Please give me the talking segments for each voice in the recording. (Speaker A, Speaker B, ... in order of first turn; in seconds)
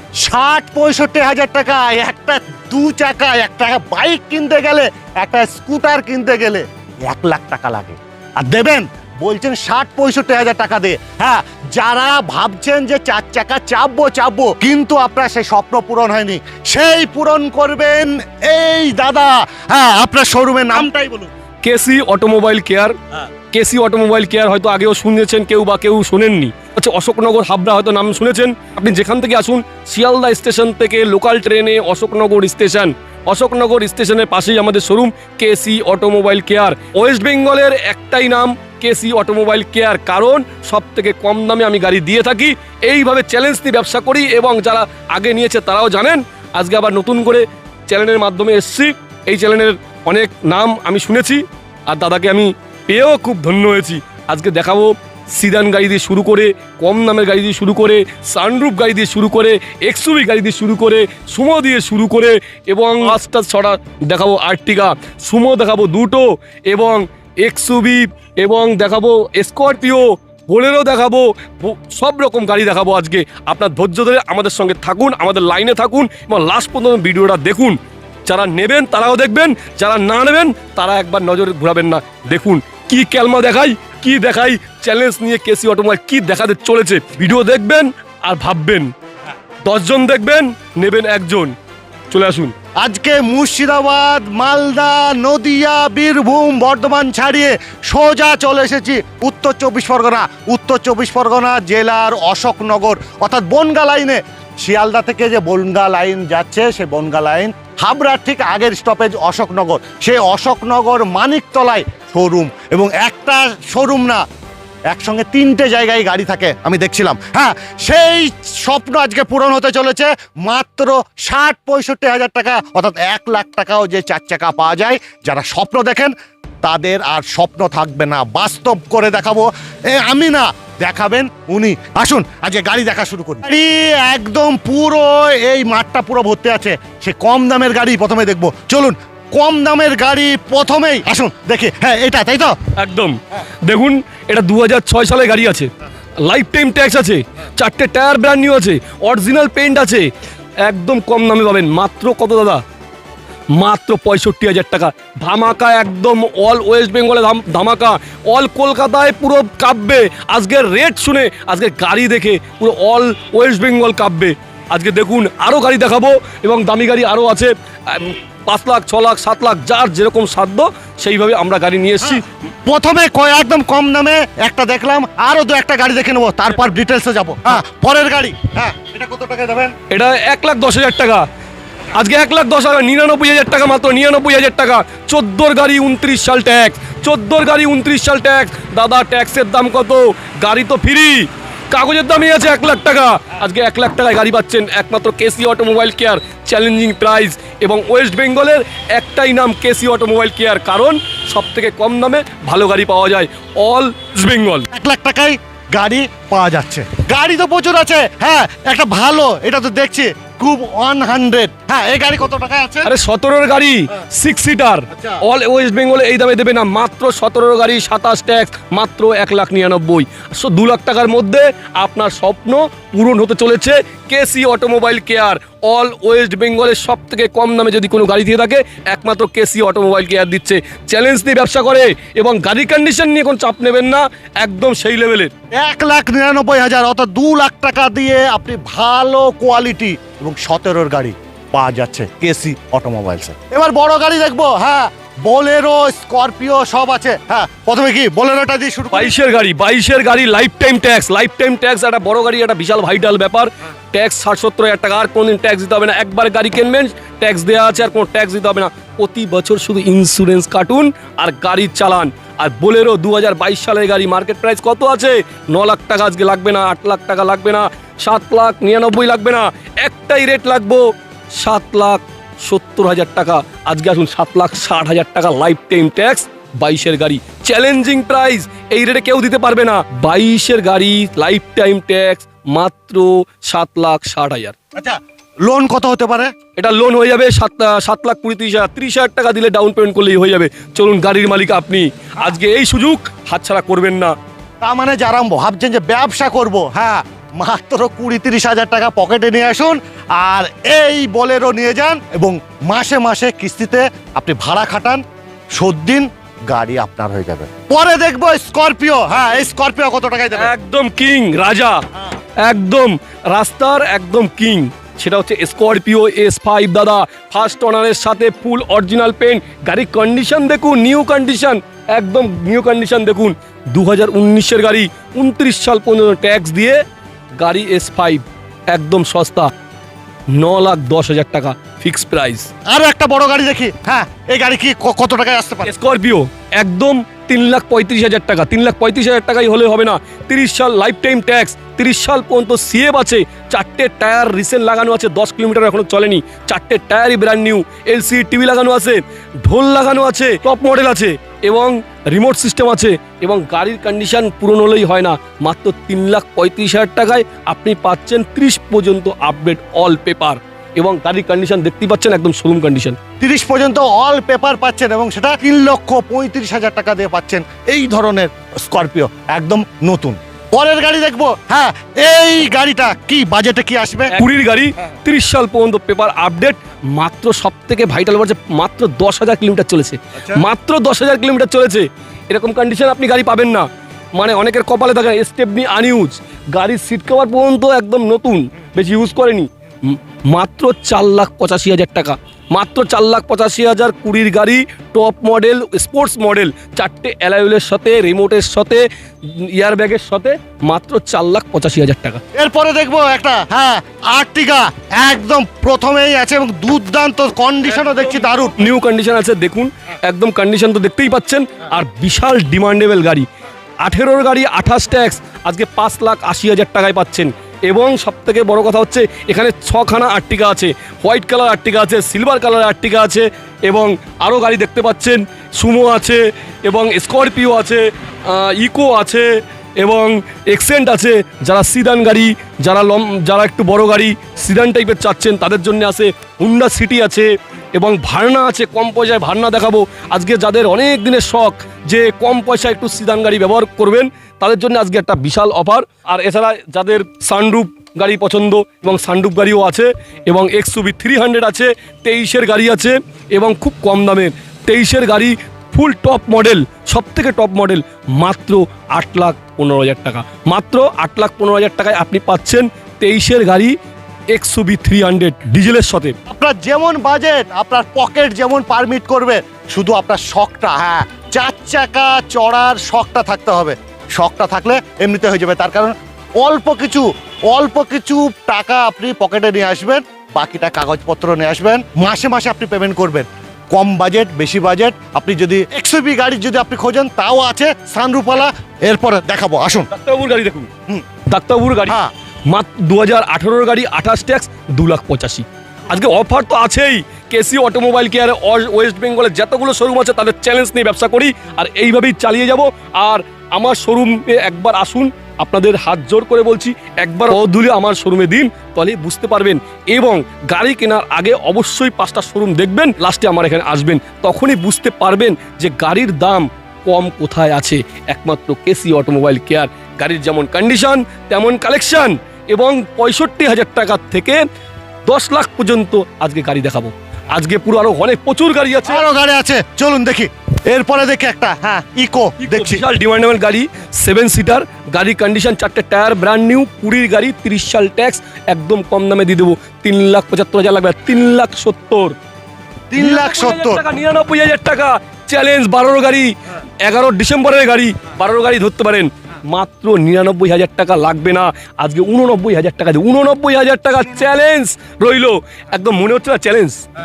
Speaker A: 0.2-21.3, 92.8-114.2, 114.9-142.6, 172.0-179.7, 204.7-212.9, 214.9-215.2, 235.5-249.1, 284.7-286.3, 294.6-305.0, 305.5-310.5, 332.7-335.7, 363.2-374.1, 402.3-408.6, 466.3-489.9, 528.8-532.8, 542.9-543.8
Speaker B: 21.6-22.9, 23.5-88.9, 89.6-91.5, 92.1-92.5, 142.8-145.7, 146.2-150.1, 150.6-152.6, 153.6-172.2, 179.9-181.2, 181.9-204.7, 212.8-235.3, 248.9-270.8, 271.4-284.5, 286.6-294.1, 310.3-311.8, 312.4-326.8, 327.4-329.5, 330.3-332.5, 335.6-363.0, 374.1-402.2, 407.6-413.3, 413.8-463.7, 464.3-466.1, 489.9-490.7, 491.3-491.9, 492.5-524.4, 525.0-529.0, 532.4-542.1, 543.0-556.8